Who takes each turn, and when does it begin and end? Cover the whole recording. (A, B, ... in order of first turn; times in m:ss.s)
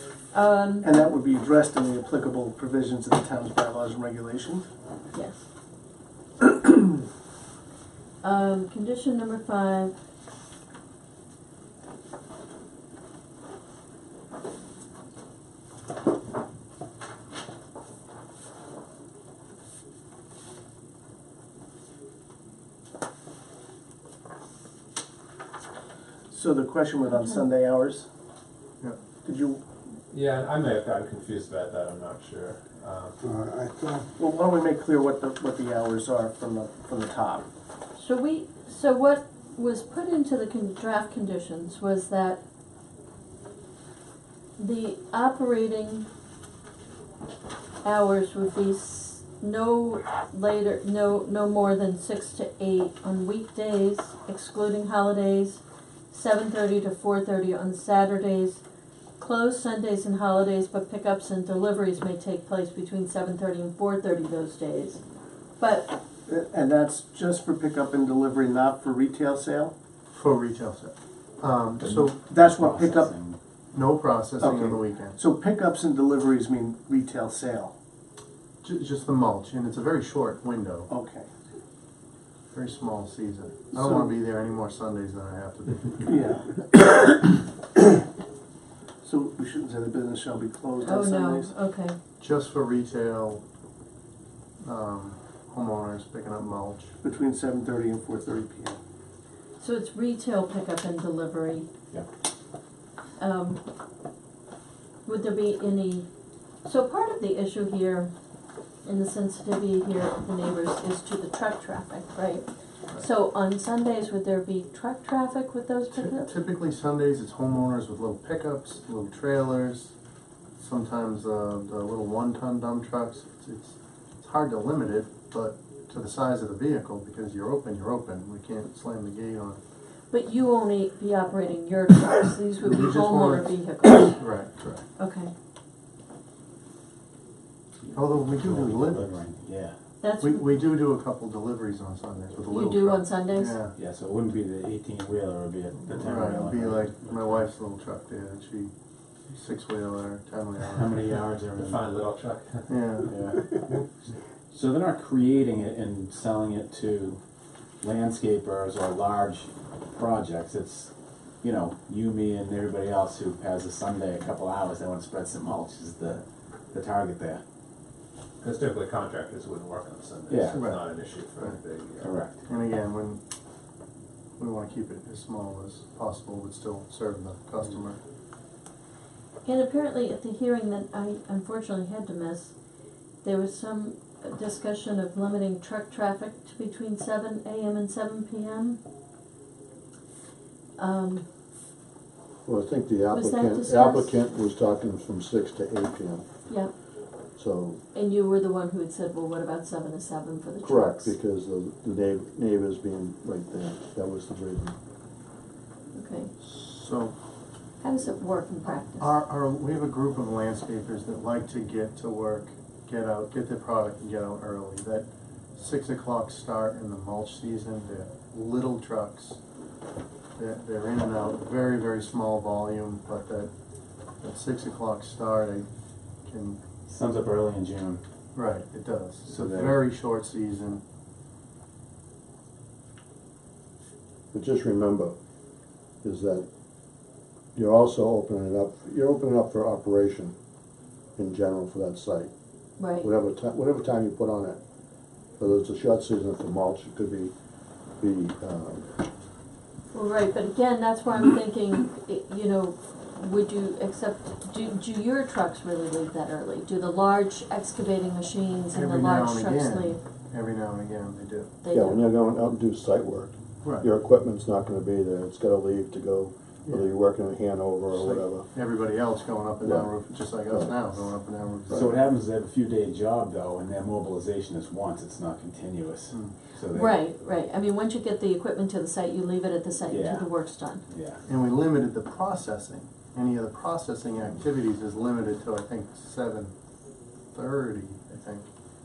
0:00.3-0:01.0 A
0:00.8-0:04.7 B
0:05.1-0:05.4 A
0:08.2-0:09.9 A
0:26.3-0:28.1 B
0:29.2-0:29.6 B
0:30.1-0:33.2 C
0:33.2-0:34.1 D
0:34.2-0:37.5 B
0:38.0-0:42.4 A
0:44.6-0:46.1 A
0:47.8-0:58.6 A
0:59.2-1:05.0 A
1:05.6-1:05.9 A
1:06.3-1:09.7 B
1:10.1-1:12.2 E
1:11.8-1:13.4 F
1:12.2-1:13.1 B
1:13.7-1:15.2 E
1:14.4-1:17.8 B
1:18.6-1:20.9 E
1:20.9-1:21.3 B
1:22.5-1:26.2 E
1:23.7-1:24.2 B
1:26.1-1:27.1 B
1:29.0-1:31.5 B
1:30.8-1:32.0 A
1:32.2-1:33.4 E
1:34.6-1:37.0 E
1:37.0-1:38.8 B
1:39.6-1:41.7 A
1:43.2-1:43.6 A
1:45.0-1:46.1 A
1:46.6-1:48.1 A
1:48.8-1:56.3 A
1:55.9-1:59.9 E
2:00.6-2:09.6 E
2:10.1-2:14.2 A
2:12.6-2:13.5 E
2:14.1-2:14.8 E
2:15.0-2:15.3 A
2:17.9-2:19.8 F
2:17.9-2:19.1 E
2:20.0-2:20.6 A
2:20.2-2:23.8 E
2:22.5-2:23.6 A
2:23.8-2:27.4 F
2:26.0-2:28.7 E
2:29.3-2:31.0 E
2:30.7-2:31.9 F
2:30.9-2:32.8 C
2:32.7-2:33.1 E
2:33.1-2:33.6 F
2:34.5-2:37.2 F
2:37.8-2:40.9 F
2:41.4-2:47.4 F
2:48.4-2:52.2 C
2:50.3-2:50.7 F
2:50.6-2:51.6 E
2:52.0-2:52.4 F
2:52.4-2:53.2 E
2:54.4-2:58.0 E
2:59.4-3:02.5 A
3:03.2-3:08.8 A
3:10.8-3:11.2 A
3:12.5-3:16.2 D
3:13.1-3:14.2 A
3:17.4-3:17.8 D
3:17.9-3:21.2 A
3:20.6-3:24.8 D
3:25.9-3:26.3 A
3:26.4-3:27.1 E
3:27.8-3:29.2 A
3:28.8-3:39.4 E
3:40.4-3:43.5 E
3:44.2-3:45.7 E
3:46.3-3:46.6 E
3:46.9-3:48.0 F
3:48.3-3:50.8 E
3:49.2-3:49.8 F
3:54.3-3:55.2 D
3:56.0-3:56.5 D
3:57.6-4:00.3 D
4:01.2-4:02.3 D
4:02.8-4:03.1 A
4:03.0-4:04.6 D
4:05.4-4:07.3 D
4:08.0-4:08.9 D
4:09.9-4:20.0 A
4:18.7-4:21.5 E
4:21.6-4:22.0 A
4:21.7-4:28.5 D
4:23.6-4:23.9 E
4:26.7-4:26.9 E
4:27.9-4:32.0 E
4:29.6-4:29.9 D
4:30.5-4:30.8 D
4:31.7-4:37.0 F
4:36.7-4:40.8 A
4:39.9-4:40.3 F
4:40.9-4:41.2 F
4:41.3-4:46.5 E
4:47.3-4:48.5 E